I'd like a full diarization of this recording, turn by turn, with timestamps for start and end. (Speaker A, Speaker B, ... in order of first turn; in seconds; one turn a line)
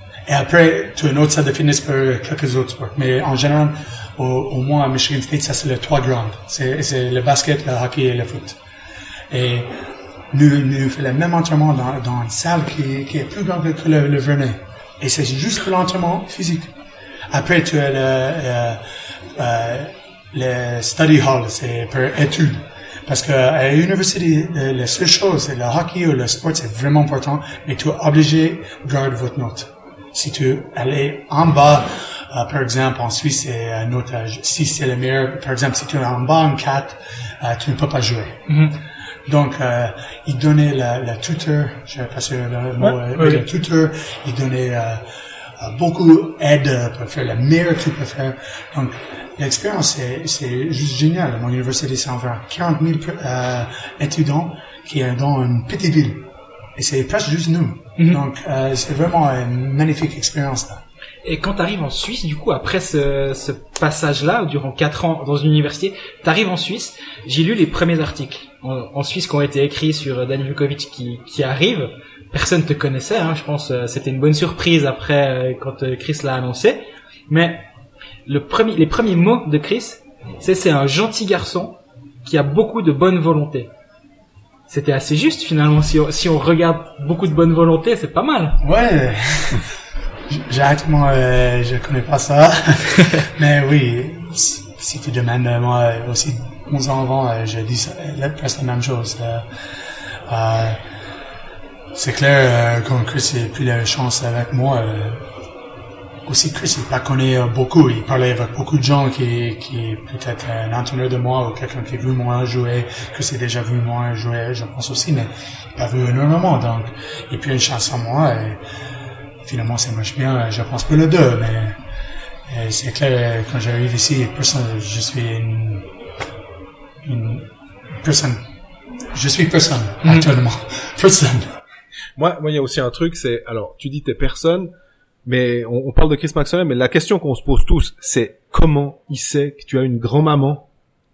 Speaker A: 0.3-8.6
Speaker A: 9.3-9.8
Speaker A: 10.3-16.7
Speaker A: 17.3-38.5
Speaker B: 38.5-38.7
Speaker A: 39.2-45.1
Speaker B: 42.8-43.4
Speaker A: 45.6-60.8
Speaker B: 58.0-58.2
Speaker B: 61.2-77.7
Speaker B: 78.2-83.7
Speaker B: 84.7-88.6
Speaker A: 88.6-89.7
Speaker A: 90.3-99.5
Speaker A: 100.2-100.8
Speaker A: 101.9-105.3
Speaker A: 106.2-118.6
Speaker A: 119.4-121.8
Speaker A: 122.5-125.9
Speaker A: 127.0-128.5
Speaker A: 129.1-131.5
Speaker B: 130.0-130.3
Speaker C: 132.2-134.7
Speaker C: 135.2-140.7